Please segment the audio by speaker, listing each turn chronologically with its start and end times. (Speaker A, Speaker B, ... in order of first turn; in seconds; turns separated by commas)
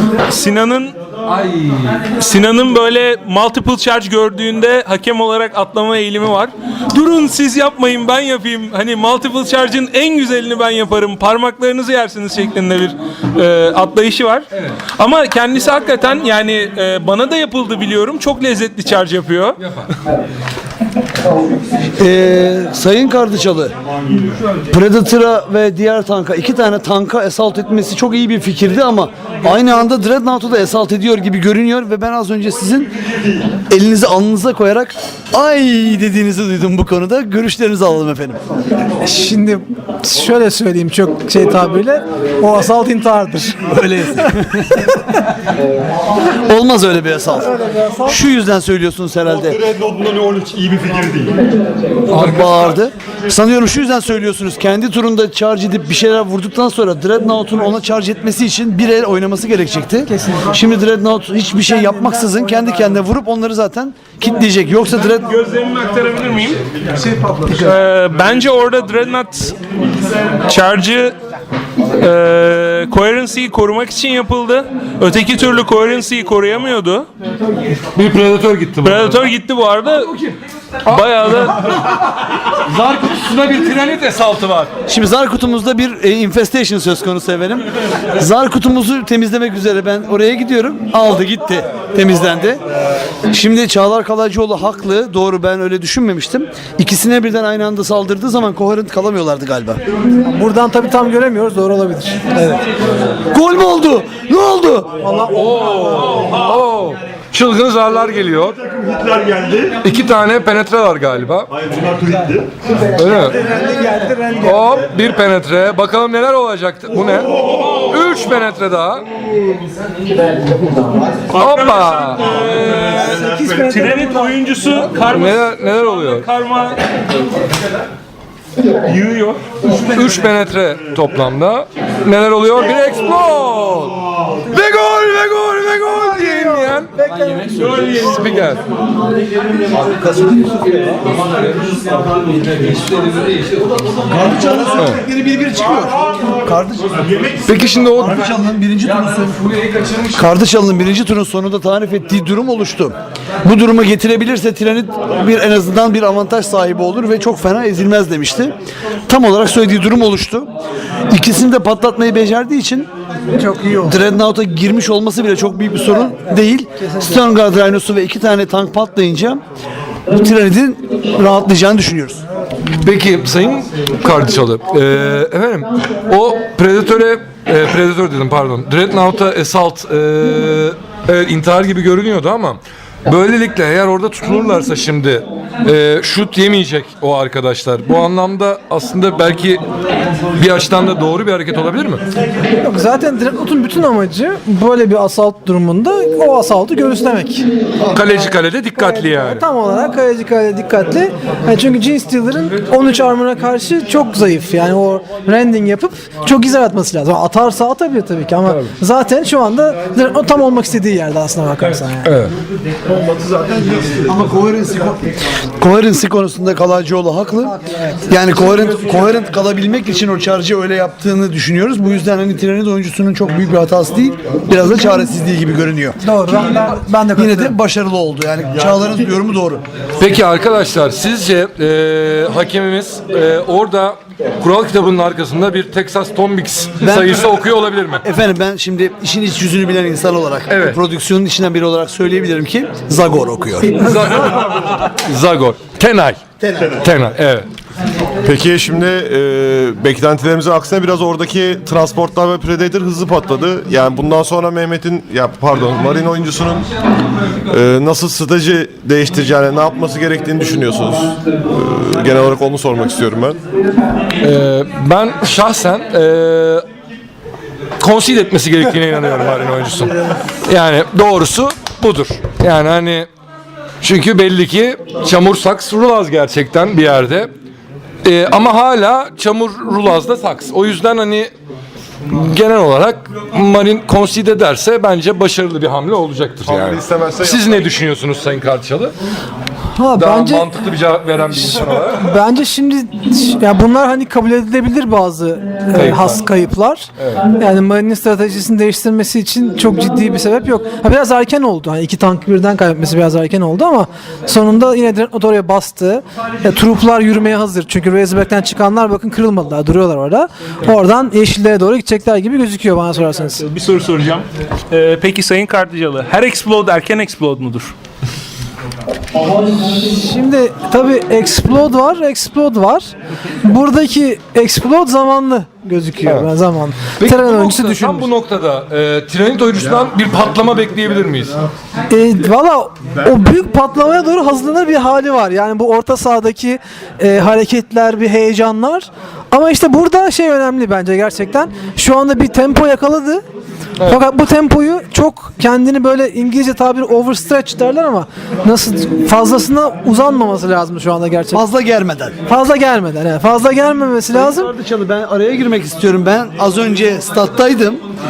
Speaker A: 0.2-0.9, Speaker B: 1.3-2.0, Speaker A: 2.1-19.6, Speaker B: 19.6-19.9, Speaker C: 22.0-23.7, Speaker C: 24.7-32.9, Speaker C: 33.7-38.4, Speaker D: 39.0-43.6, Speaker C: 43.6-45.0, Speaker C: 46.2-49.6, Speaker D: 47.4-48.2, Speaker E: 49.4-51.4, Speaker B: 52.1-52.5, Speaker C: 52.1-65.3, Speaker D: 60.1-60.5, Speaker D: 61.6-62.7, Speaker A: 65.0-66.6, Speaker D: 67.1-67.7, Speaker A: 67.5-69.6, Speaker A: 70.5-71.2, Speaker A: 71.9-77.1, Speaker B: 77.9-79.2, Speaker A: 78.8-80.2, Speaker A: 80.8-81.7, Speaker B: 80.8-81.8, Speaker B: 82.5-84.7, Speaker C: 84.9-92.6, Speaker C: 93.3-99.8, Speaker D: 100.2-102.2, Speaker C: 102.3-102.6, Speaker C: 103.3-104.9, Speaker D: 105.0-106.3, Speaker B: 105.3-108.7, Speaker E: 108.7-109.7, Speaker B: 109.8-111.5, Speaker E: 111.7-112.4, Speaker B: 112.9-113.7, Speaker D: 113.7-114.4, Speaker B: 114.3-119.0, Speaker A: 121.3-126.8, Speaker B: 121.3-122.2, Speaker D: 122.9-124.7, Speaker B: 125.1-126.2, Speaker A: 128.7-129.4, Speaker B: 129.8-138.6, Speaker D: 135.9-137.7, Speaker C: 139.8-140.7, Speaker C: 144.0-147.4, Speaker B: 147.4-148.1, Speaker C: 147.9-149.4, Speaker B: 149.4-150.1, Speaker C: 150.1-158.5, Speaker C: 159.1-160.5, Speaker C: 161.1-162.9, Speaker D: 163.3-164.0, Speaker C: 163.8-169.4, Speaker D: 166.2-167.2, Speaker C: 170.1-172.2, Speaker B: 172.8-189.6, Speaker B: 190.3-192.0, Speaker D: 192.6-197.4, Speaker B: 197.9-199.4, Speaker D: 198.7-212.1, Speaker B: 208.4-208.7, Speaker B: 212.0-212.3, Speaker C: 213.8-217.5, Speaker D: 217.4-218.1, Speaker C: 218.1-229.6, Speaker D: 226.0-227.5, Speaker B: 230.0-238.0, Speaker C: 236.8-237.4, Speaker C: 238.0-243.9, Speaker B: 240.5-240.8, Speaker B: 243.8-246.2, Speaker C: 246.4-246.9, Speaker B: 246.8-247.5, Speaker F: 248.2-256.7, Speaker F: 257.5-263.4, Speaker B: 264.2-266.6, Speaker B: 267.8-269.9, Speaker B: 270.5-273.1, Speaker B: 273.8-277.3, Speaker B: 278.0-281.3, Speaker B: 282.1-288.9, Speaker F: 286.4-287.7, Speaker D: 289.8-290.5, Speaker B: 289.9-292.1, Speaker D: 291.9-313.4, Speaker B: 295.7-296.2, Speaker A: 313.4-317.7, Speaker D: 319.6-328.1, Speaker B: 326.0-326.3, Speaker B: 327.0-331.4, Speaker D: 331.9-343.2, Speaker D: 343.8-351.4, Speaker C: 351.3-352.1, Speaker D: 352.2-354.5, Speaker C: 354.1-357.8